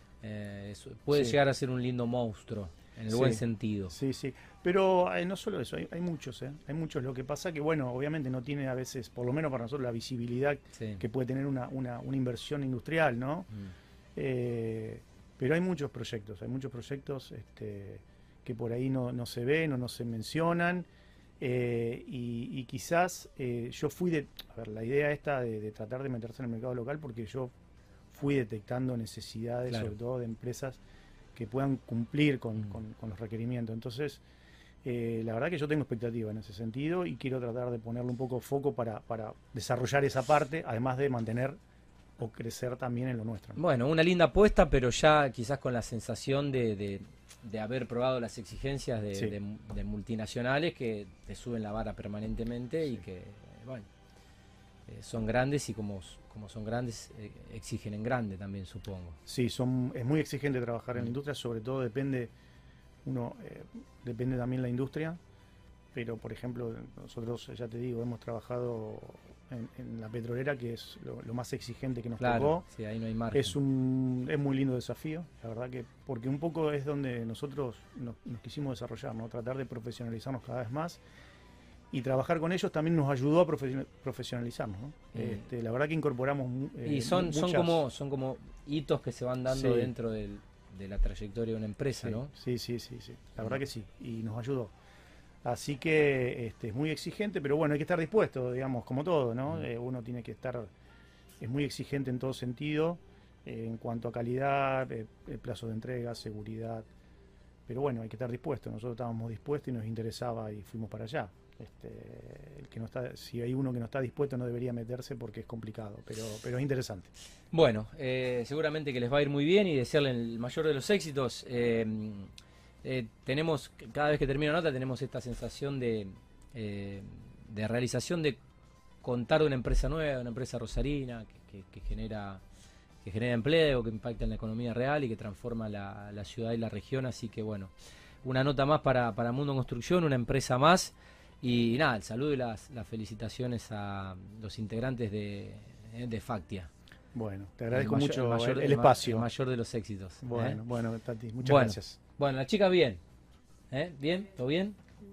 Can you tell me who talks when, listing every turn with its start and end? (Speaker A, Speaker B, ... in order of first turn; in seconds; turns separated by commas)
Speaker A: 0.2-4.0, Speaker B: 1.1-1.4, Speaker B: 3.1-13.5, Speaker A: 10.8-11.0, Speaker B: 14.1-20.9, Speaker B: 21.4-27.5, Speaker B: 28.1-30.8, Speaker B: 31.4-34.2, Speaker B: 34.8-41.6, Speaker B: 42.2-43.6, Speaker A: 43.6-53.9, Speaker A: 54.9-59.2, Speaker B: 59.3-62.3, Speaker B: 63.0-65.2, Speaker B: 65.9-72.6, Speaker A: 72.2-73.6, Speaker B: 73.3-81.0, Speaker B: 81.9-87.8, Speaker A: 85.1-85.4, Speaker A: 86.8-92.3, Speaker B: 89.5-89.9, Speaker B: 92.0-94.7, Speaker B: 95.4-100.7, Speaker B: 101.4-106.9, Speaker B: 107.7-117.1, Speaker A: 117.5-122.3, Speaker A: 122.8-128.4, Speaker A: 129.0-132.4, Speaker A: 133.0-137.7, Speaker A: 138.2-146.7, Speaker B: 147.1-149.3, Speaker A: 147.7-150.6, Speaker B: 150.2-152.0, Speaker A: 151.4-153.0, Speaker A: 153.7-154.8